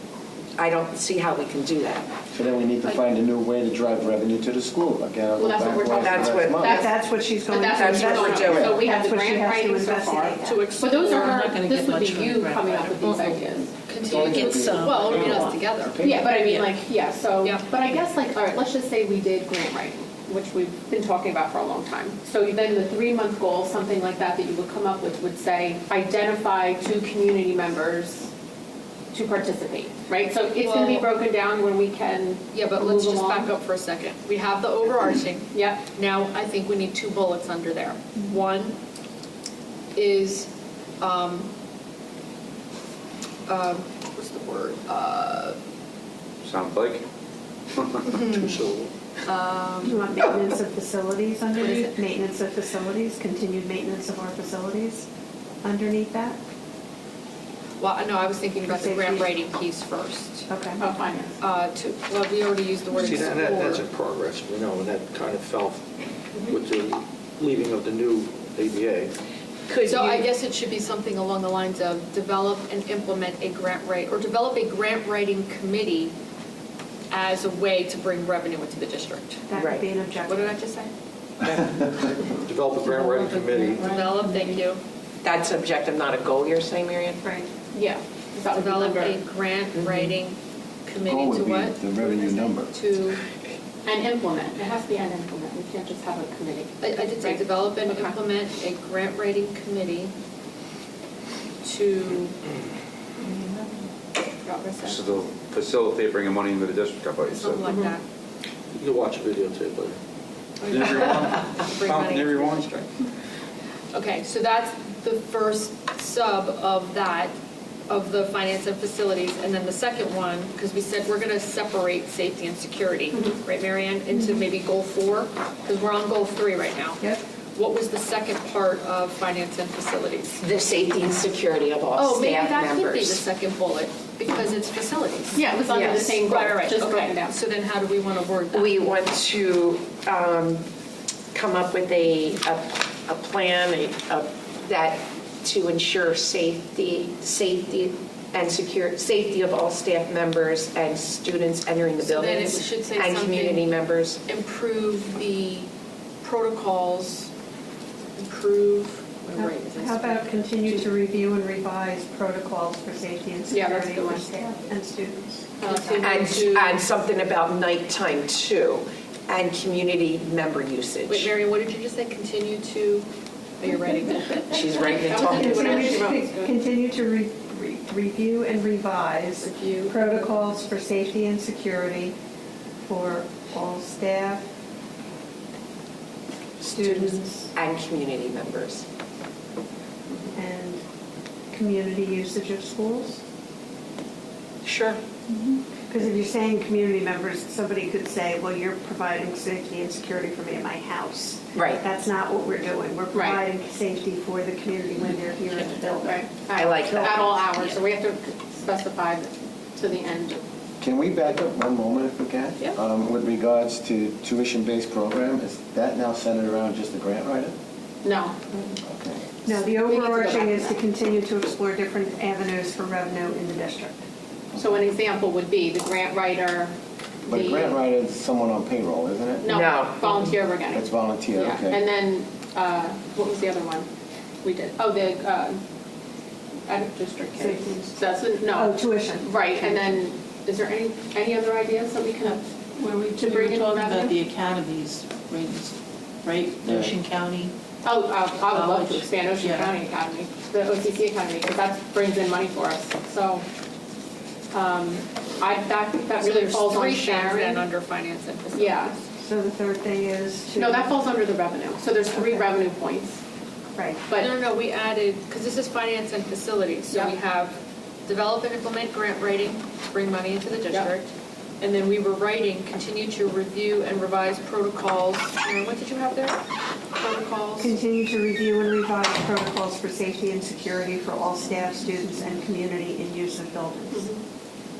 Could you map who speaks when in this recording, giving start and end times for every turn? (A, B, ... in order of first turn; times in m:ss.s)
0:00.6-0:02.1 A
0:02.3-0:06.8 B
0:05.4-0:06.8 C
0:05.9-0:07.0 A
0:06.8-0:10.6 D
0:07.5-0:13.7 C
0:07.7-0:08.8 A
0:08.5-0:08.8 B
0:10.4-0:11.3 E
0:10.9-0:13.5 F
0:13.8-0:16.0 E
0:14.0-0:16.4 B
0:14.2-0:15.3 F
0:14.2-0:14.8 A
0:14.9-0:15.5 C
0:16.0-0:28.3 C
0:17.4-0:17.7 E
0:29.1-0:33.5 C
0:30.6-0:31.1 E
0:32.5-0:38.8 E
0:35.5-0:35.8 C
0:39.9-0:41.5 E
0:43.5-0:45.6 E
0:46.4-0:47.0 G
0:47.8-0:48.3 G
0:48.1-0:48.5 E
0:48.3-0:48.9 H
0:49.2-0:50.2 E
0:49.8-0:55.1 D
0:51.6-0:51.9 E
0:55.6-0:56.4 D
0:57.8-1:00.5 E
0:58.6-0:59.3 D
1:00.5-1:00.8 D
1:00.8-1:01.4 C
1:01.4-1:03.8 E
1:02.9-1:05.8 H
1:06.4-1:09.1 H
1:09.7-1:10.2 A
1:09.9-1:16.1 E
1:17.1-1:19.4 E
1:19.5-1:20.6 D
1:19.5-1:19.9 A
1:20.2-1:20.9 E
1:21.4-1:21.8 A
1:22.4-1:23.8 H
1:22.8-1:24.6 F
1:23.8-1:24.8 E
1:25.2-1:27.2 A
1:27.2-1:27.5 D
1:27.7-1:29.2 C
1:28.5-1:33.2 E
1:29.7-1:30.2 A
1:31.0-1:32.7 B
1:33.8-1:38.2 C
1:36.8-1:40.1 E
1:41.6-1:42.4 E
1:43.2-1:43.6 E
1:44.4-1:45.1 E
1:44.8-1:47.7 G
1:47.3-1:48.0 E
1:47.7-1:47.9 C
1:48.7-1:50.0 H
1:50.6-1:52.9 E
1:50.6-1:52.7 G
1:53.9-1:57.3 E
1:57.9-2:07.0 E
2:04.1-2:04.4 D
2:07.5-2:10.4 E
2:10.4-2:13.2 A
2:12.0-2:18.7 E
2:15.3-2:17.3 C
2:15.7-2:16.1 A
2:18.5-2:20.6 A
2:21.3-2:34.2 A
2:32.0-2:33.7 E
2:34.2-2:35.7 E
2:36.2-2:37.3 E
2:38.2-2:40.9 E
2:39.3-2:45.5 D
2:43.5-2:44.3 C
2:45.6-2:46.1 C
2:45.6-2:46.8 E
2:46.0-2:51.3 A
2:51.1-2:53.1 E
2:53.6-2:56.5 E
2:54.5-2:56.0 A
2:55.0-2:56.4 C
2:55.3-3:02.1 D
2:59.4-3:00.6 E
3:02.8-3:04.5 D
3:06.6-3:08.8 A
3:06.7-3:07.5 D
3:10.3-3:10.8 D
3:11.5-3:13.2 D
3:14.6-3:15.0 A
3:15.8-3:27.2 D
3:21.5-3:21.8 A
3:23.1-3:23.4 C
3:26.1-3:30.4 C
3:26.5-3:27.3 A
3:30.8-3:37.5 B
3:38.0-3:38.5 C
3:38.8-3:39.2 B
3:39.4-3:44.0 D
3:39.7-3:40.7 C
3:40.0-3:40.4 E
3:44.6-3:46.7 C
3:47.2-3:47.8 C
3:47.3-3:49.5 B
3:49.4-3:53.9 C
3:49.4-3:50.2 A
3:50.7-3:51.8 B
3:54.4-3:55.6 C
3:56.7-4:02.4 C
3:57.4-3:59.6 D
4:02.8-4:07.5 F
4:03.2-4:04.0 C
4:07.8-4:13.4 C
4:08.5-4:09.8 F
4:14.5-4:17.6 C
4:16.2-4:19.0 E
4:18.5-4:18.9 C
4:19.2-4:20.9 D
4:20.6-4:23.2 C
4:23.7-4:24.0 D
4:24.2-4:31.1 E
4:26.9-4:27.2 C
4:31.6-4:36.4 E
4:36.9-4:37.8 E
4:37.6-4:44.0 D
4:43.9-4:44.2 C